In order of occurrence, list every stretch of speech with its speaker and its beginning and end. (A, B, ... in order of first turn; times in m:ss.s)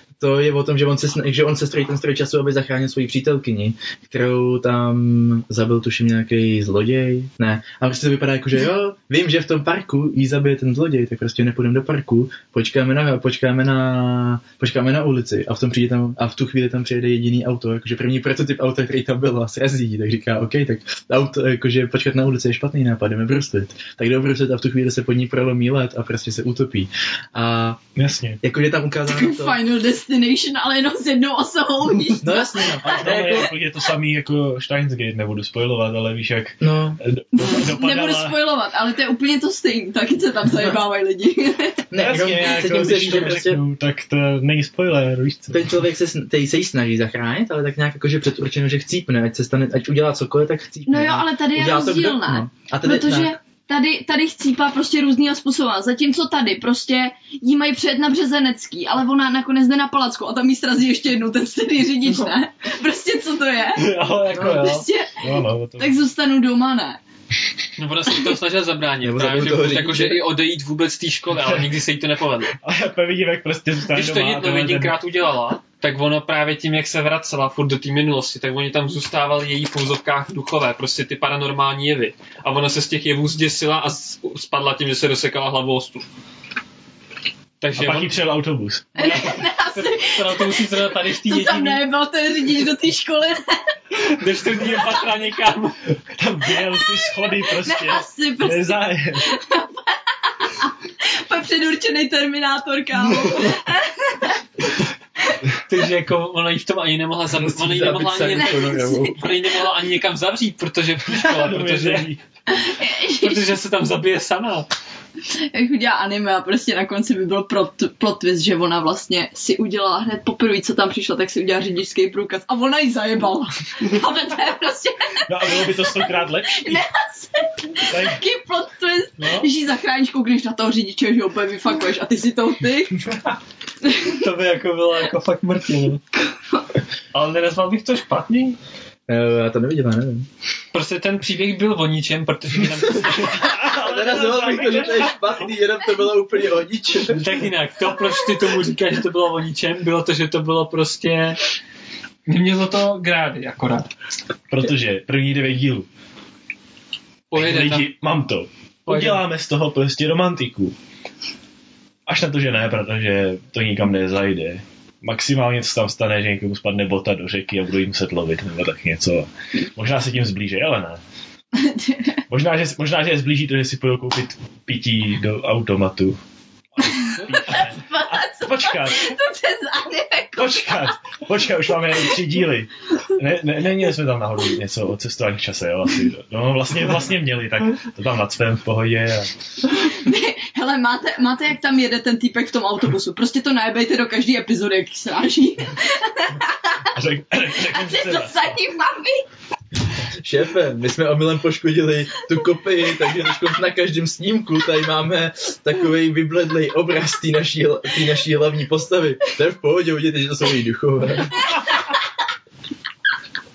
0:00.2-0:27.8 A
0:28.0-0:28.4 B
0:28.4-0:29.6 A
0:29.1-0:33.5 C
0:32.2-0:33.5 A
0:32.8-0:38.4 B
0:36.6-0:37.0 A
0:37.3-0:41.9 C
0:41.9-0:43.6 A
0:42.0-0:45.7 B
0:45.5-0:53.3 A
0:50.9-1:05.3 C
1:03.8-1:04.9 D
1:05.2-1:06.0 B
1:05.8-1:07.0 C
1:07.8-1:12.5 D
1:09.0-1:10.2 A
1:12.6-1:15.0 B
1:13.9-1:26.0 D
1:27.6-1:28.2 D
1:27.8-1:28.9 B
1:29.0-1:31.8 D
1:29.0-1:33.8 C
1:34.0-1:35.8 D
1:36.2-1:39.3 B
1:37.2-1:44.7 C
1:45.7-1:52.1 D
1:47.3-1:49.2 A
1:48.3-1:49.2 C
1:51.1-1:52.2 B
1:52.5-1:53.5 C
1:53.2-1:54.7 D
1:55.3-2:13.0 C
2:05.3-2:06.8 B
2:07.9-2:08.2 B
2:09.2-2:09.5 B
2:13.8-2:14.1 C
2:14.1-2:16.0 D
2:17.1-2:18.6 D
2:19.1-2:20.3 A
2:20.7-2:23.4 D
2:23.0-2:25.3 B
2:23.7-2:27.3 A
2:27.1-2:31.4 D
2:32.3-2:33.9 D
2:34.5-2:35.9 B
2:37.3-2:37.9 D
2:37.4-2:40.8 B
2:38.9-2:39.2 D
2:42.1-2:51.0 B
2:51.5-2:52.2 C
2:52.3-2:56.2 B
2:56.8-2:59.2 B
2:57.0-3:00.9 C
3:00.4-3:09.3 B
3:09.7-3:16.8 C
3:16.9-3:18.4 B
3:17.6-3:19.3 C
3:20.2-3:31.4 A